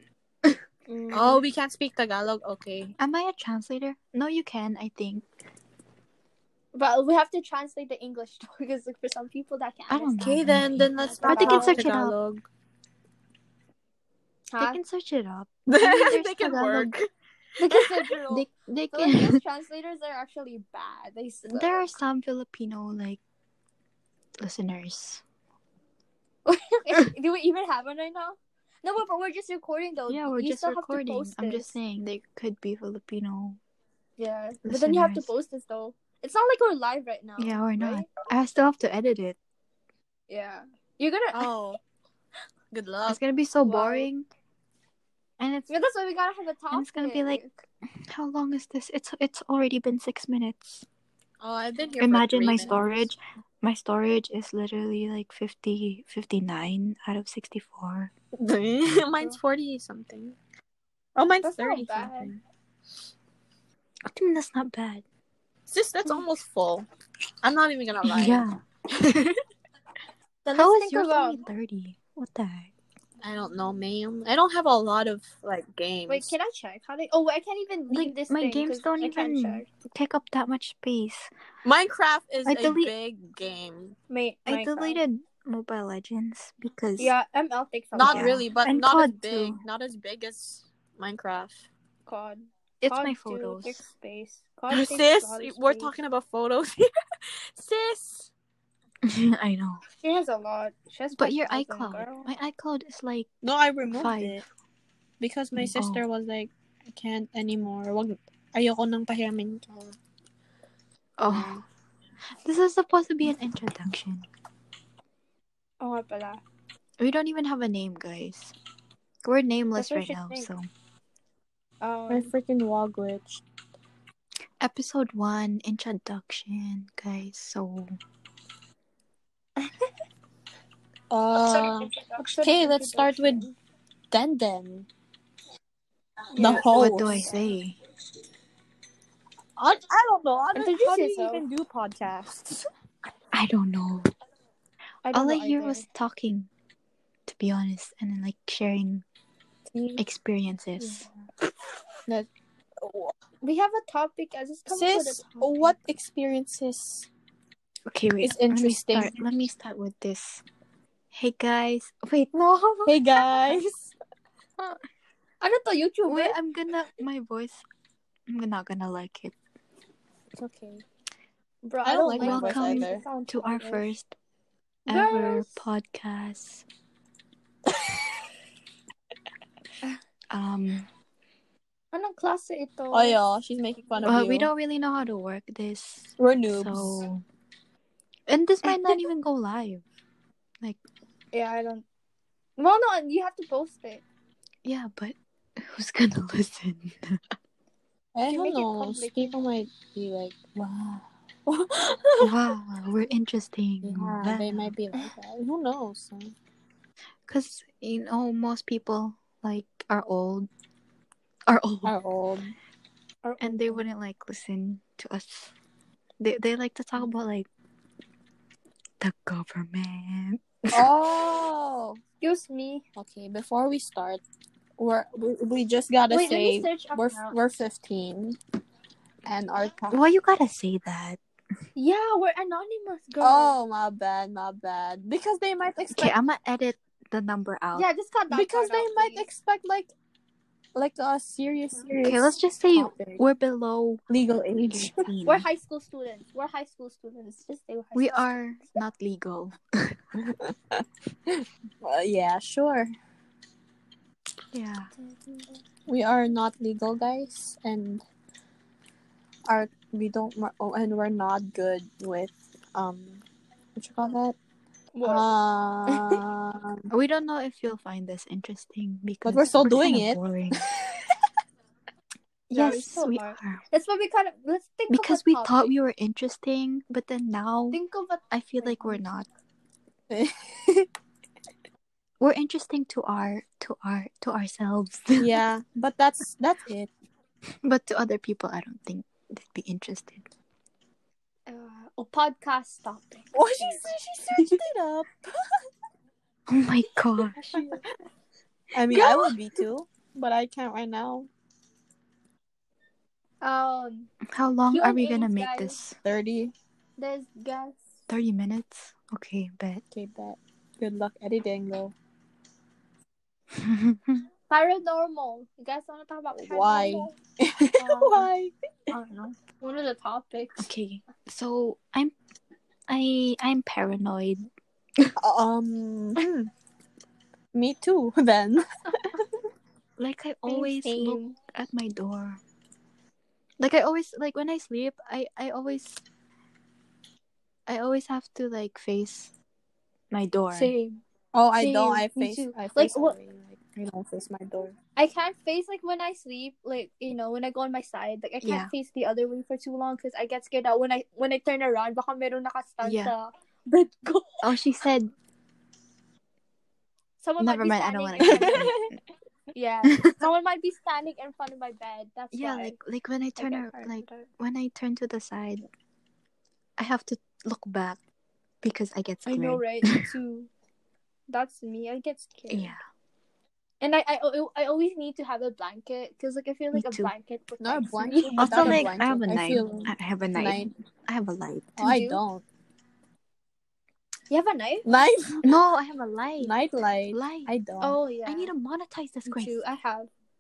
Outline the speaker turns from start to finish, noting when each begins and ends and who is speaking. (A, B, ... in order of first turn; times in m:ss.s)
0:00.9-0:01.4 A
0:01.1-0:02.9 B
0:03.0-0:05.3 C
0:06.7-0:10.3 A
0:09.9-0:12.1 C
0:10.2-0:12.4 B
0:11.2-0:11.8 A
0:14.5-0:14.8 A
0:14.6-0:17.0 C
0:15.7-0:17.1 B
0:17.6-0:21.9 A
0:18.3-0:19.4 C
0:21.5-0:23.2 C
0:24.4-0:25.2 C
0:26.5-0:31.8 A
0:30.1-0:33.6 C
0:34.2-0:38.1 A
0:34.6-0:35.3 C
0:37.4-0:39.4 C
0:40.3-0:41.5 A
0:41.3-0:41.8 B
0:42.7-0:43.2 B
0:43.1-0:44.3 C
0:43.6-0:44.1 A
0:45.4-0:45.7 C
0:45.7-0:47.6 A
0:46.7-0:47.4 C
0:48.1-0:50.9 C
0:51.4-0:53.1 B
0:52.0-0:58.1 C
0:58.4-1:00.4 B
1:01.2-1:02.4 B
1:01.4-1:02.3 A
1:04.1-1:05.0 C
1:05.7-1:06.9 B
1:07.4-1:08.5 B
1:08.0-1:09.3 C
1:10.4-1:11.4 A
1:10.5-1:12.7 C
1:13.2-1:16.4 B
1:16.1-1:19.7 A
1:17.9-1:21.3 C
1:21.6-1:24.0 B
1:22.5-1:22.9 C
1:24.1-1:25.0 A
1:24.5-1:27.1 C
1:27.0-1:28.4 A
1:28.0-1:31.7 B
1:28.0-1:29.6 C
1:32.1-1:35.9 A
1:32.8-1:33.8 C
1:34.7-1:36.8 B
1:37.5-1:38.3 B
1:39.0-1:39.8 C
1:40.0-1:42.3 A
1:41.2-1:43.3 C
1:43.4-1:44.4 B
1:43.9-1:44.4 C
1:45.2-1:50.0 B
1:45.6-1:46.0 C
1:51.2-1:51.6 C
1:51.3-1:51.6 B
1:52.4-1:54.3 C
1:55.8-1:56.4 A
1:57.0-1:58.5 C
1:59.2-2:00.6 C
1:59.8-2:00.5 A
2:01.8-2:02.3 A
2:02.1-2:03.4 B
2:04.6-2:08.0 C
2:11.1-2:13.4 B
2:11.5-2:13.6 A
2:14.1-2:14.9 B
2:16.3-2:17.4 A
2:16.3-2:17.2 B
2:16.4-2:17.8 C
2:19.6-2:22.7 B
2:20.6-2:21.4 A
2:23.3-2:24.1 C
2:25.0-2:25.9 A
2:25.1-2:26.5 C
2:27.3-2:29.0 C
2:30.0-2:31.1 C
2:32.8-2:33.1 B
2:33.4-2:35.8 A
2:34.7-2:37.1 B
2:37.9-2:40.4 C
2:38.2-2:39.3 B
2:41.1-2:43.0 C
2:42.8-2:43.6 A
2:42.9-2:43.9 B
2:45.4-2:46.4 A
2:46.1-2:47.6 C
2:48.3-2:49.4 C
2:50.3-2:50.8 B
2:51.6-2:53.9 A
2:51.8-2:53.0 B
2:52.0-2:54.1 C
2:54.9-2:56.6 C
2:54.9-2:55.6 A
3:00.3-3:00.9 C
3:01.9-3:03.2 A
3:02.9-3:04.5 B
3:04.0-3:07.2 C
3:06.2-3:07.0 B
3:08.3-3:09.8 C
3:08.7-3:09.0 B
3:11.3-3:11.8 A
3:12.6-3:14.0 A
3:14.6-3:17.4 C
3:18.2-3:22.3 B
3:18.3-3:19.4 A
3:22.2-3:24.8 C
3:23.8-3:26.3 B
3:27.3-3:30.5 C
3:31.5-3:32.0 C
3:31.9-3:32.5 B
3:33.2-3:33.8 A
3:33.4-3:35.5 C
3:36.2-3:37.5 C
3:39.0-3:40.9 C
3:40.7-3:42.0 B
3:42.2-3:42.8 A
3:43.0-3:44.2 B
3:44.8-3:48.4 B
3:46.1-3:47.4 A
3:49.3-3:50.0 B
3:49.9-3:51.2 C
3:51.8-3:53.6 A
3:53.2-3:56.1 B
3:56.0-3:57.9 C
3:57.7-3:59.3 A
3:58.3-3:59.9 B
4:00.8-4:03.2 B
4:02.0-4:04.0 C
4:04.1-4:05.1 B
4:04.7-4:05.5 C
4:05.2-4:08.4 A
4:08.0-4:10.0 C
4:10.2-4:12.9 B
4:14.5-4:14.9 C
4:15.0-4:15.6 A
4:15.9-4:18.0 B
4:19.5-4:23.2 B
4:23.8-4:24.4 B
4:25.0-4:25.3 A
4:25.0-4:26.9 B
4:25.9-4:26.2 A
4:26.9-4:30.6 C
4:29.2-4:31.0 B
4:32.5-4:33.6 C
4:32.5-4:35.7 A
4:34.9-4:37.8 C
4:37.7-4:39.0 A
4:38.3-4:39.3 C
4:40.1-4:40.9 B
4:42.2-4:45.4 C
4:45.2-4:46.9 B
4:47.6-4:50.3 C
4:51.5-4:53.9 A
4:53.3-4:55.3 B
4:56.5-4:57.4 C
4:57.4-4:57.8 A
4:58.7-5:01.3 B
5:03.4-5:04.1 A
5:04.3-5:06.0 C
5:04.7-5:05.8 A
5:06.0-5:06.5 B
5:07.0-5:07.9 A
5:08.1-5:09.8 C
5:09.9-5:11.9 B
5:13.5-5:14.2 C
5:14.5-5:17.2 A
5:16.3-5:18.5 B
5:17.8-5:18.3 A
5:18.9-5:20.7 A
5:20.6-5:22.1 C
5:22.9-5:24.5 C
5:25.2-5:26.5 B
5:27.5-5:29.2 B
5:30.0-5:32.4 C
5:30.5-5:31.4 A
5:33.6-5:36.0 C
5:37.7-5:39.3 C
5:40.1-5:40.7 C
5:40.5-5:41.0 A
5:41.3-5:44.8 B
5:41.6-5:43.2 A
5:45.0-5:54.4 A
5:48.4-5:48.7 C
5:52.8-5:53.1 C
5:54.4-5:55.1 C
5:57.2-5:58.9 A
5:57.4-5:58.9 C
5:58.2-5:58.7 B
5:59.5-6:02.8 A
5:59.8-6:00.2 C
6:02.3-6:05.6 C
6:03.4-6:04.3 A
6:06.8-6:08.0 C
6:08.6-6:10.1 C
6:09.3-6:10.5 A
6:11.3-6:12.7 A
6:12.5-6:12.8 C
6:13.8-6:18.9 A
6:16.7-6:17.1 C
6:17.6-6:20.7 B
6:18.4-6:21.8 C
6:21.8-6:22.4 B
6:21.8-6:22.2 A
6:24.3-6:24.9 A
6:24.8-6:25.4 B
6:25.4-6:26.5 C
6:26.4-6:28.0 B
6:27.1-6:27.5 C
6:27.8-6:28.5 A
6:28.3-6:29.6 C
6:29.3-6:30.1 A